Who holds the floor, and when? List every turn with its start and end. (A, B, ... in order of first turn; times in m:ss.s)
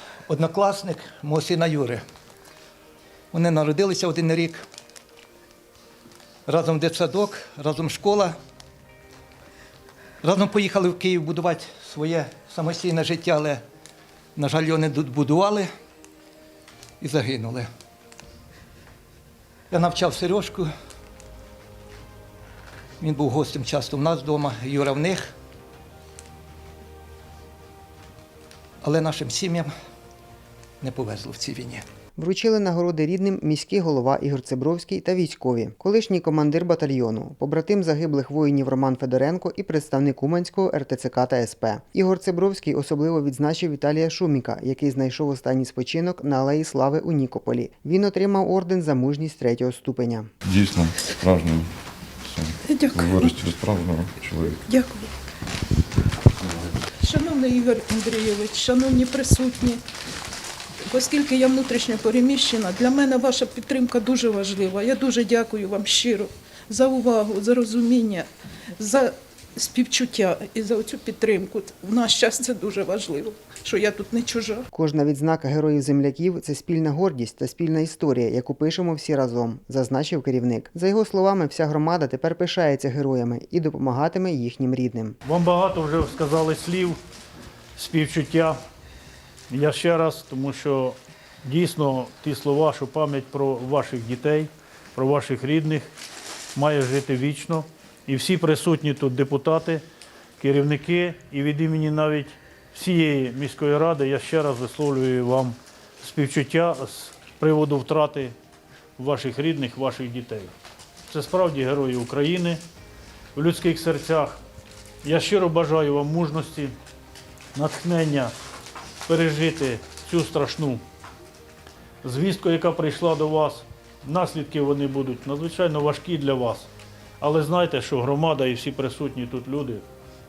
0:00.3-0:02.0 A
0:03.3-0:04.6 A
0:06.5-0:08.4 A
0:10.2-0:13.6 A
0:14.4-0:15.7 A
0:17.0-0:17.7 A
0:19.7-0:20.7 A
0:23.0-0:25.3 A
0:28.8-0:29.7 A
0:30.8-0:31.8 A
0:32.2-0:50.3 B
0:50.4-0:54.6 C
0:52.7-0:53.3 D
0:54.6-0:55.1 D
0:57.0-0:59.8 D
1:00.9-1:14.7 D
1:14.7-1:25.2 B
1:25.2-1:27.0 E
1:27.8-1:28.6 E
1:29.5-1:35.9 E
1:36.6-1:39.8 E
1:40.4-1:48.3 E
1:49.0-1:50.5 E
1:51.1-1:52.6 E
1:53.4-1:54.4 E
1:55.0-1:56.7 E
1:57.5-1:58.3 E
1:59.1-2:00.8 E
2:02.0-2:06.7 E
2:07.2-2:09.8 E